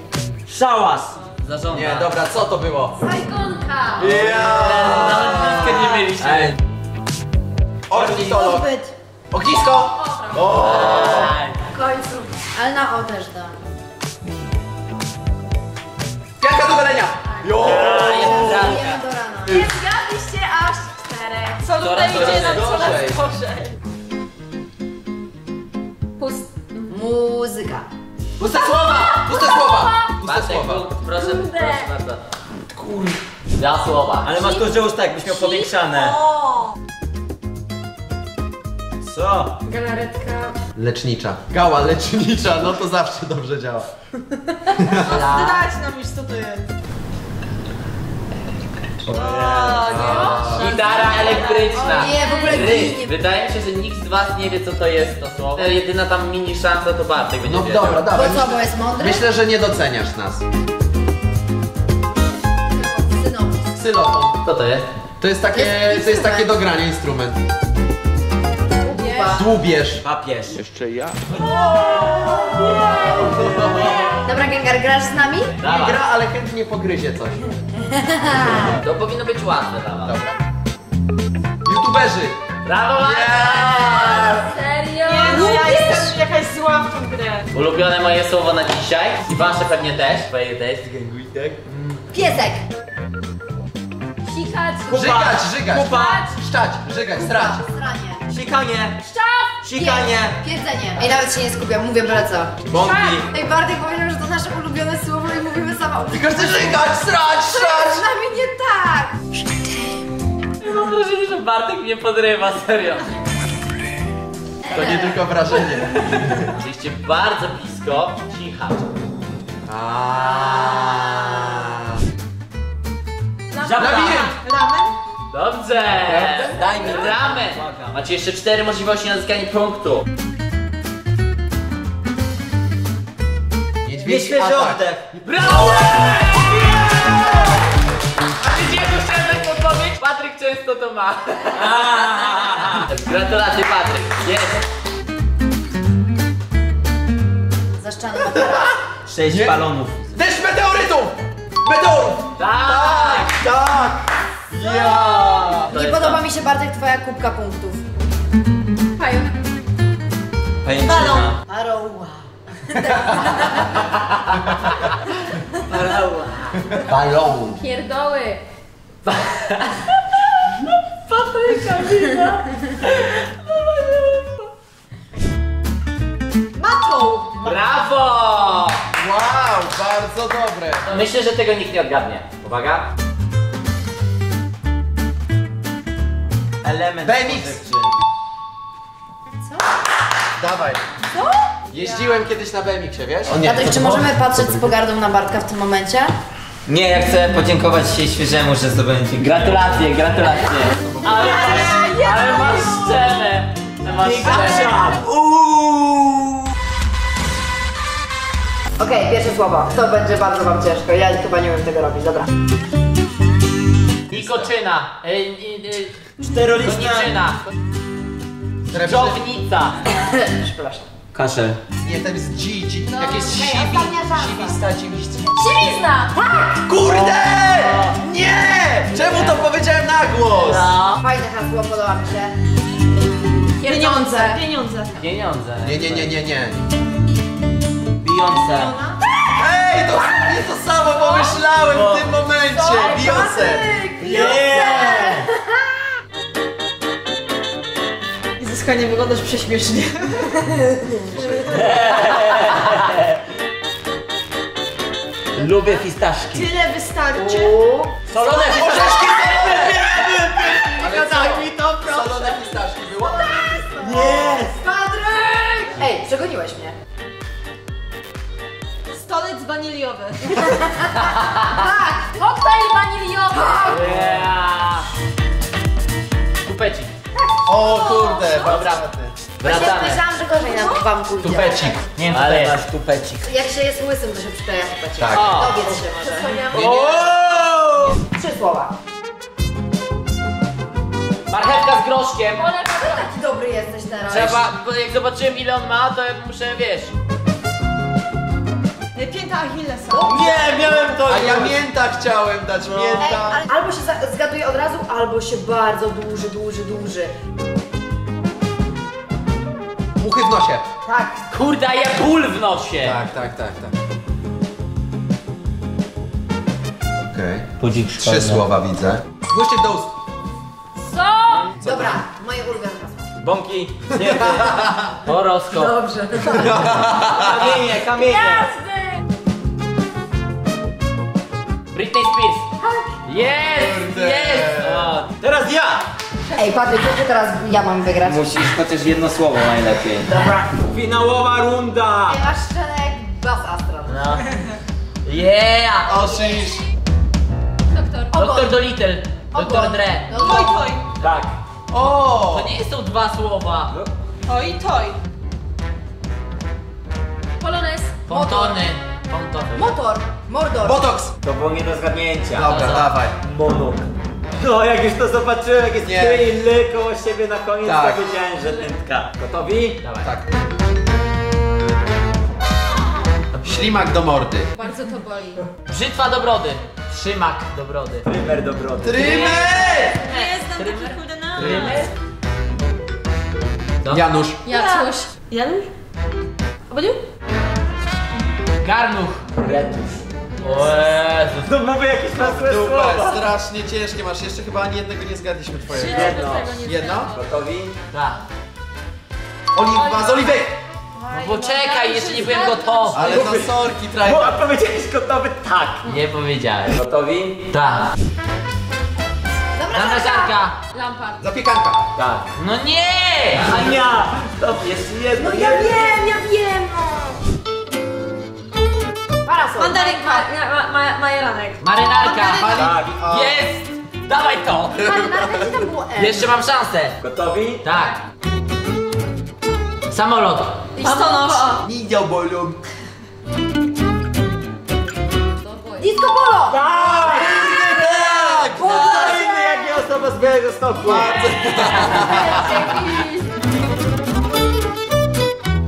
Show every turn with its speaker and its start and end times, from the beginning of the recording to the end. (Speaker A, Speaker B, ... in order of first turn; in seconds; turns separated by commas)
Speaker A: 0.5-1.2, Speaker B: 1.4-2.1, Speaker C: 1.7-3.0, Speaker D: 3.0-4.2, Speaker C: 4.0-6.5, Speaker B: 4.4-6.6, Speaker C: 7.9-8.7, Speaker A: 7.9-8.4, Speaker E: 8.2-8.9, Speaker C: 9.3-11.3, Speaker D: 10.0-10.7, Speaker B: 10.6-11.6, Speaker D: 11.7-12.3, Speaker E: 12.5-13.6, Speaker C: 16.4-18.8, Speaker D: 17.3-18.1, Speaker B: 17.6-19.0, Speaker E: 17.9-19.8, Speaker D: 19.5-21.8, Speaker F: 21.6-23.8, Speaker B: 21.8-23.0, Speaker C: 21.9-23.2, Speaker D: 26.2-26.9, Speaker E: 26.9-27.9, Speaker C: 28.4-30.9, Speaker D: 28.5-30.1, Speaker B: 30.2-32.2, Speaker D: 31.1-31.9, Speaker C: 32.7-33.2, Speaker B: 33.6-34.4, Speaker A: 34.2-36.2, Speaker D: 35.2-35.7, Speaker F: 36.1-36.6, Speaker A: 39.0-39.5, Speaker F: 39.7-40.6, Speaker C: 40.8-43.9, Speaker C: 44.8-45.3, Speaker F: 45.0-46.7, Speaker B: 45.1-45.6, Speaker A: 49.1-50.1, Speaker F: 49.1-52.5, Speaker C: 49.9-51.3, Speaker B: 50.1-58.1, Speaker D: 50.1-50.5, Speaker D: 51.7-52.6, Speaker E: 51.7-53.1, Speaker C: 57.5-60.5, Speaker E: 58.1-59.2, Speaker E: 63.1-63.8, Speaker C: 63.8-64.4, Speaker B: 64.4-64.9, Speaker C: 65.2-67.4, Speaker E: 65.5-66.5, Speaker E: 68.8-69.5, Speaker D: 68.9-69.4, Speaker C: 69.3-70.0, Speaker A: 70.0-70.6, Speaker C: 70.5-71.5, Speaker C: 72.6-74.2, Speaker E: 74.2-75.5, Speaker B: 75.6-76.0, Speaker C: 75.6-77.4, Speaker E: 77.8-78.8, Speaker B: 78.6-80.2, Speaker C: 81.7-82.4, Speaker B: 82.7-84.4, Speaker C: 83.0-84.4, Speaker E: 84.1-86.1, Speaker D: 84.2-86.1, Speaker F: 85.0-87.5, Speaker B: 87.5-90.8, Speaker A: 90.8-91.6, Speaker B: 91.7-92.0, Speaker E: 92.1-92.6, Speaker D: 94.3-95.0, Speaker A: 94.9-96.3, Speaker C: 94.9-97.6, Speaker D: 95.9-96.3, Speaker E: 97.2-98.3, Speaker A: 98.3-99.0, Speaker D: 99.0-99.6, Speaker A: 99.6-100.4, Speaker E: 99.8-107.0, Speaker A: 102.7-103.3, Speaker D: 102.9-103.2, Speaker C: 106.1-108.0, Speaker E: 107.5-109.2, Speaker B: 110.6-113.1, Speaker E: 114.7-115.2, Speaker C: 114.7-116.5, Speaker B: 114.7-115.1, Speaker B: 116.5-118.9, Speaker C: 119.7-121.9, Speaker F: 123.5-125.0, Speaker A: 123.6-124.3, Speaker D: 123.7-124.3, Speaker C: 123.8-124.4, Speaker B: 125.3-130.1, Speaker C: 126.0-126.9, Speaker A: 126.5-128.0, Speaker C: 133.8-134.8, Speaker A: 134.0-135.1, Speaker B: 135.2-137.4, Speaker B: 138.4-141.8, Speaker A: 141.6-142.9, Speaker B: 142.7-144.6, Speaker E: 147.8-148.8, Speaker A: 149.1-150.1, Speaker C: 149.3-155.7, Speaker B: 152.4-153.4, Speaker B: 155.1-156.2, Speaker E: 155.7-157.8, Speaker D: 159.0-159.3, Speaker A: 160.6-162.3, Speaker F: 160.9-161.2, Speaker E: 162.7-163.7, Speaker B: 164.5-164.8, Speaker B: 165.7-166.6, Speaker C: 166.7-167.6, Speaker D: 167.5-168.4, Speaker B: 169.1-170.0, Speaker B: 171.1-172.3, Speaker F: 171.5-172.4, Speaker F: 173.4-174.3, Speaker F: 176.6-177.5, Speaker B: 177.4-178.8, Speaker C: 178.9-180.9, Speaker B: 180.9-182.9, Speaker A: 186.6-187.9, Speaker C: 187.0-187.6, Speaker C: 190.4-190.8, Speaker C: 191.7-194.7, Speaker E: 193.4-196.1, Speaker A: 196.7-199.8, Speaker B: 199.2-204.8, Speaker C: 200.7-201.7, Speaker A: 201.1-201.9, Speaker F: 201.4-202.9, Speaker A: 203.9-206.3, Speaker E: 208.8-212.3, Speaker B: 214.1-216.0, Speaker C: 214.1-214.5, Speaker A: 216.2-217.1, Speaker B: 216.6-217.4, Speaker C: 218.7-219.2, Speaker B: 218.8-219.8, Speaker E: 219.9-220.9, Speaker A: 221.1-221.6, Speaker C: 221.8-225.4, Speaker E: 222.9-224.6, Speaker D: 225.4-226.6, Speaker C: 226.7-230.8, Speaker A: 226.8-227.9, Speaker B: 229.1-229.4, Speaker B: 230.4-231.0, Speaker E: 231.0-232.4, Speaker D: 233.6-234.4, Speaker E: 233.6-234.3, Speaker F: 233.6-235.0, Speaker B: 235.0-236.1, Speaker C: 235.6-236.6, Speaker A: 238.0-238.8, Speaker C: 239.3-243.7, Speaker A: 241.7-242.1, Speaker E: 242.5-245.3, Speaker D: 242.7-243.1, Speaker A: 244.0-245.3, Speaker C: 244.3-244.9, Speaker F: 248.4-250.4, Speaker C: 251.2-251.6, Speaker A: 251.5-253.2, Speaker A: 255.3-256.5, Speaker F: 256.3-257.6, Speaker E: 257.1-257.9, Speaker A: 258.1-261.6, Speaker B: 258.2-258.6, Speaker C: 258.4-259.8, Speaker F: 260.5-262.4, Speaker C: 260.8-263.7, Speaker A: 263.8-264.6, Speaker E: 264.0-266.8, Speaker F: 268.9-270.4, Speaker E: 270.3-272.2, Speaker B: 271.0-271.5, Speaker D: 272.2-273.6, Speaker E: 273.3-273.8, Speaker B: 273.7-274.9, Speaker A: 273.8-274.2, Speaker B: 276.4-276.9, Speaker C: 277.5-279.2, Speaker F: 277.7-278.6, Speaker B: 278.3-278.8, Speaker B: 279.4-280.0, Speaker E: 279.4-281.8, Speaker F: 280.5-280.8, Speaker C: 281.2-281.8, Speaker A: 282.0-283.3, Speaker B: 282.1-282.6, Speaker E: 283.2-286.3, Speaker C: 285.0-285.4, Speaker B: 285.1-285.7, Speaker D: 286.1-286.7, Speaker C: 286.5-287.2, Speaker A: 286.5-288.0, Speaker E: 288.1-288.7, Speaker B: 291.3-292.5, Speaker D: 292.4-293.1, Speaker E: 292.8-294.5, Speaker B: 294.1-296.9, Speaker F: 298.9-300.0, Speaker E: 299.9-301.0, Speaker A: 300.0-301.6, Speaker C: 301.1-303.4, Speaker A: 302.6-303.1, Speaker E: 303.0-307.1, Speaker C: 310.0-310.7, Speaker E: 310.9-311.3, Speaker B: 311.3-313.0, Speaker C: 312.8-313.7, Speaker C: 317.1-319.9, Speaker A: 317.6-318.5, Speaker D: 320.8-321.5, Speaker C: 321.6-322.0, Speaker E: 321.6-323.1, Speaker A: 323.2-324.6, Speaker C: 324.0-324.8, Speaker B: 325.0-325.7, Speaker E: 325.5-326.8, Speaker C: 326.3-327.6, Speaker A: 327.0-328.6, Speaker D: 328.1-329.0, Speaker B: 331.7-332.5, Speaker E: 332.6-333.0, Speaker B: 333.1-335.1, Speaker C: 333.4-334.9, Speaker A: 335.1-335.9, Speaker E: 336.4-338.3, Speaker A: 338.0-342.2, Speaker E: 342.1-344.2, Speaker A: 343.9-344.2, Speaker B: 345.1-345.9, Speaker C: 345.9-346.6, Speaker E: 345.9-346.6, Speaker D: 347.7-348.1, Speaker E: 348.1-348.5, Speaker B: 348.1-350.1, Speaker E: 349.3-350.7, Speaker F: 350.1-350.9, Speaker A: 351.0-351.4, Speaker C: 351.7-352.5, Speaker B: 352.2-353.7, Speaker F: 354.3-355.0, Speaker D: 357.4-358.0, Speaker F: 357.4-357.8, Speaker B: 358.1-359.7, Speaker E: 358.1-358.6, Speaker E: 359.5-360.9, Speaker C: 360.6-361.1, Speaker A: 361.2-362.7, Speaker C: 362.3-363.2, Speaker B: 362.4-362.9, Speaker A: 363.2-369.8, Speaker C: 365.8-366.3, Speaker C: 367.6-368.1, Speaker B: 369.8-370.1, Speaker C: 370.0-370.4, Speaker B: 373.3-373.7, Speaker C: 373.4-374.5, Speaker D: 374.6-375.4, Speaker B: 375.6-378.1, Speaker A: 378.1-379.3, Speaker C: 378.8-380.1, Speaker D: 379.0-380.5, Speaker F: 379.1-381.8, Speaker B: 380.6-381.9, Speaker C: 381.4-381.8, Speaker B: 383.8-384.1, Speaker C: 383.9-384.4, Speaker D: 384.5-385.1, Speaker F: 384.5-385.7, Speaker F: 386.7-387.0, Speaker B: 388.6-389.3, Speaker A: 389.4-390.0, Speaker B: 390.4-391.5, Speaker A: 391.4-393.3, Speaker C: 392.2-397.1, Speaker F: 395.7-397.2, Speaker A: 395.8-396.6, Speaker A: 397.1-397.8, Speaker B: 397.9-398.2, Speaker C: 399.5-400.6, Speaker F: 399.7-400.3, Speaker D: 399.8-400.4, Speaker F: 401.0-402.8, Speaker B: 401.1-403.0, Speaker D: 402.5-402.9, Speaker C: 402.9-404.4, Speaker A: 402.9-405.9, Speaker B: 405.9-406.8, Speaker A: 406.7-407.5, Speaker B: 407.5-407.9, Speaker E: 409.6-410.4, Speaker B: 409.7-410.6, Speaker D: 410.7-411.2, Speaker C: 411.2-411.9, Speaker A: 412.0-412.3, Speaker B: 412.4-413.5, Speaker A: 413.4-416.1, Speaker D: 416.6-417.0, Speaker E: 419.2-420.3, Speaker F: 419.6-422.5, Speaker B: 421.6-424.9, Speaker C: 422.3-423.4, Speaker A: 422.6-423.0, Speaker C: 424.8-425.5, Speaker E: 424.8-426.2, Speaker B: 426.0-427.0, Speaker A: 427.0-427.6, Speaker B: 427.6-428.0, Speaker B: 429.9-430.7, Speaker F: 430.8-431.6, Speaker E: 430.8-431.4, Speaker C: 431.6-432.6, Speaker D: 435.4-435.9, Speaker E: 435.8-436.6, Speaker A: 436.5-441.2, Speaker C: 436.9-439.2, Speaker E: 438.5-439.5, Speaker C: 440.9-442.6, Speaker D: 440.9-441.5, Speaker D: 442.0-443.2, Speaker E: 442.1-443.1